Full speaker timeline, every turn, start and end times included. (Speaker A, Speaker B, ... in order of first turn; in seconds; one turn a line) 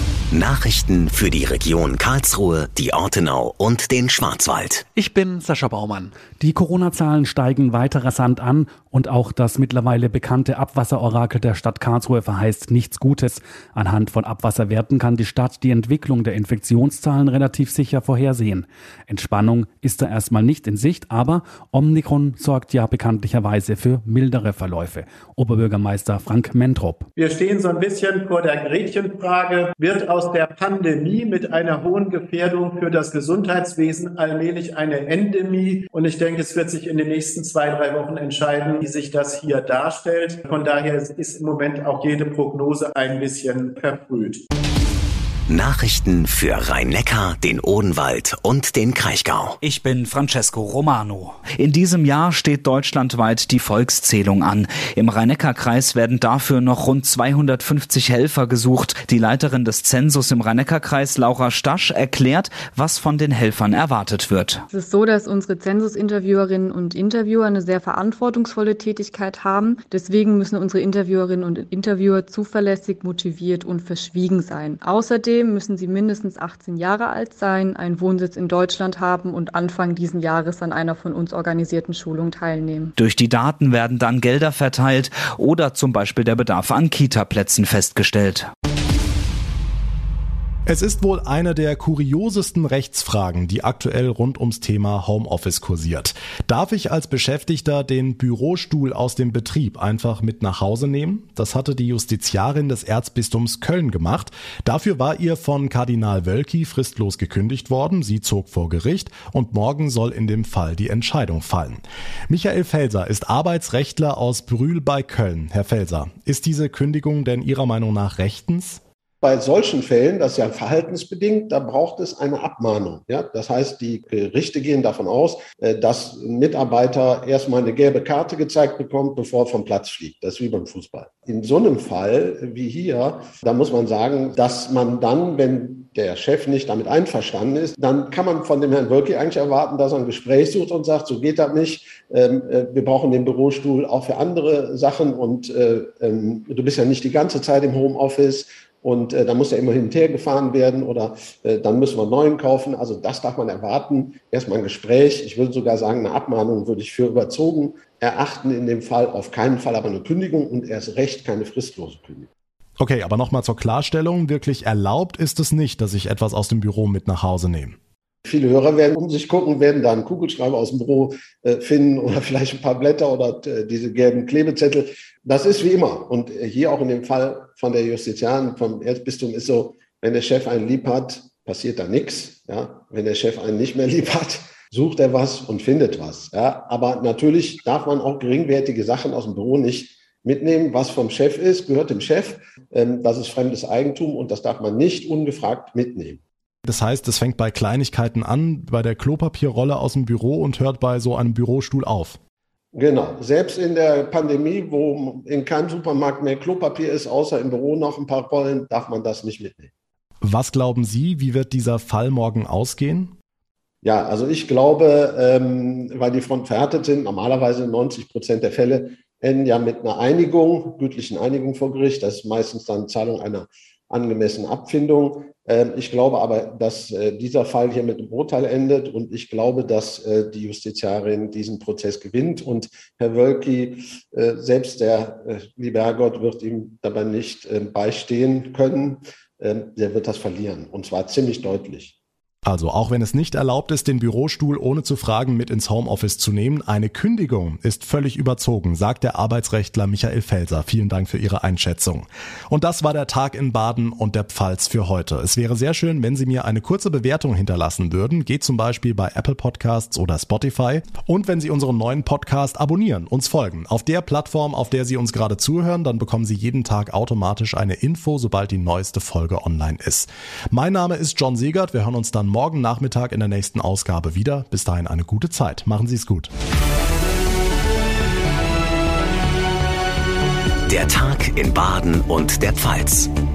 Speaker A: 0.3-4.9
Speaker B: 5.0-27.1
Speaker C: 27.1-44.4
Speaker A: 45.5-49.6
Speaker D: 49.6-64.6
Speaker E: 64.7-82.9
Speaker D: 83.0-88.5
Speaker F: 90.7-118.8
Speaker G: 119.2-162.3
Speaker F: 162.8-167.8
Speaker G: 168.2-196.2
Speaker F: 196.7-202.2
Speaker G: 202.7-209.7
Speaker F: 210.2-213.1
Speaker G: 213.8-241.9
Speaker F: 242.4-276.3
Speaker A: 280.7-283.1